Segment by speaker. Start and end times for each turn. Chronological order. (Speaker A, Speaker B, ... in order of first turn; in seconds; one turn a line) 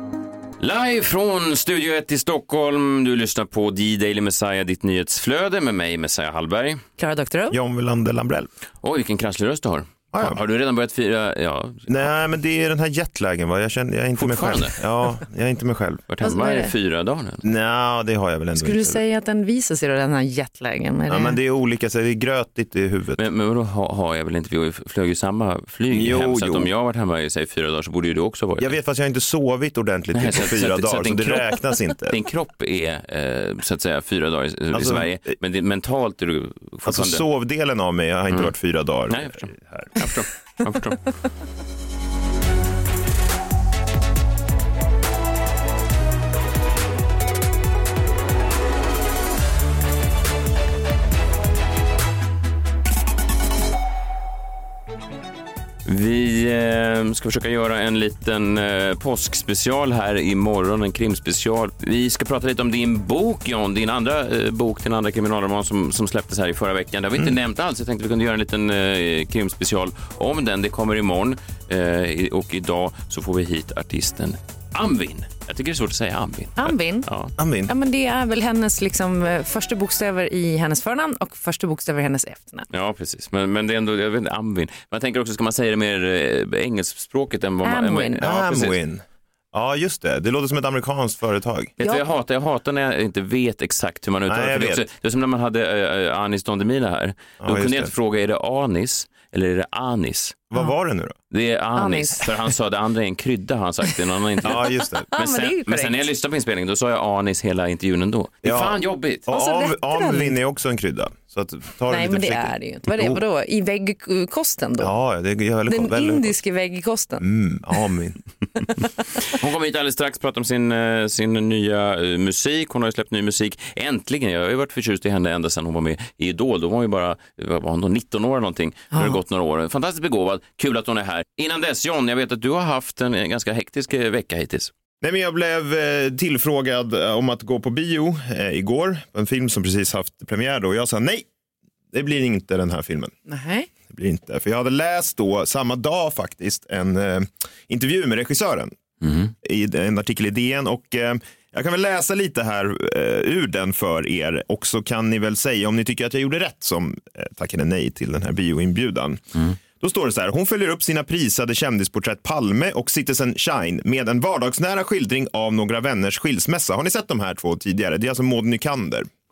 Speaker A: 0.6-6.8
Speaker B: 7.0-7.6
Speaker C: 7.5-8.5
Speaker A: 8.8-12.1
Speaker C: 10.1-10.4
Speaker C: 11.9-16.0
Speaker A: 14.2-14.8
Speaker A: 16.1-17.4
Speaker B: 16.2-16.7
Speaker C: 17.4-19.0
Speaker B: 18.6-21.4
Speaker C: 21.1-23.2
Speaker A: 23.2-28.8
Speaker C: 25.9-26.7
Speaker C: 28.6-32.2
Speaker A: 30.1-31.6
Speaker A: 32.1-37.2
Speaker C: 34.7-35.4
Speaker C: 36.9-39.9
Speaker A: 39.1-41.1
Speaker A: 55.9-77.3
Speaker B: 76.6-77.1
Speaker C: 77.4-77.7
Speaker B: 77.7-82.7
Speaker A: 82.7-88.8
Speaker B: 87.6-88.2
Speaker C: 88.2-91.7
Speaker A: 91.8-100.4
Speaker B: 91.8-92.0
Speaker C: 94.3-94.9
Speaker C: 97.4-97.9
Speaker C: 100.5-101.2
Speaker A: 101.3-109.3
Speaker B: 101.8-102.3
Speaker C: 104.5-105.1
Speaker B: 105.1-106.1
Speaker C: 108.4-113.2
Speaker B: 109.3-110.3
Speaker B: 111.9-114.9
Speaker C: 114.8-116.3
Speaker B: 115.7-117.2
Speaker C: 117.2-118.2
Speaker A: 119.3-134.7
Speaker C: 135.0-141.3
Speaker C: 141.9-143.1
Speaker B: 143.3-143.7
Speaker C: 143.9-148.7
Speaker A: 149.0-149.3
Speaker C: 149.4-169.1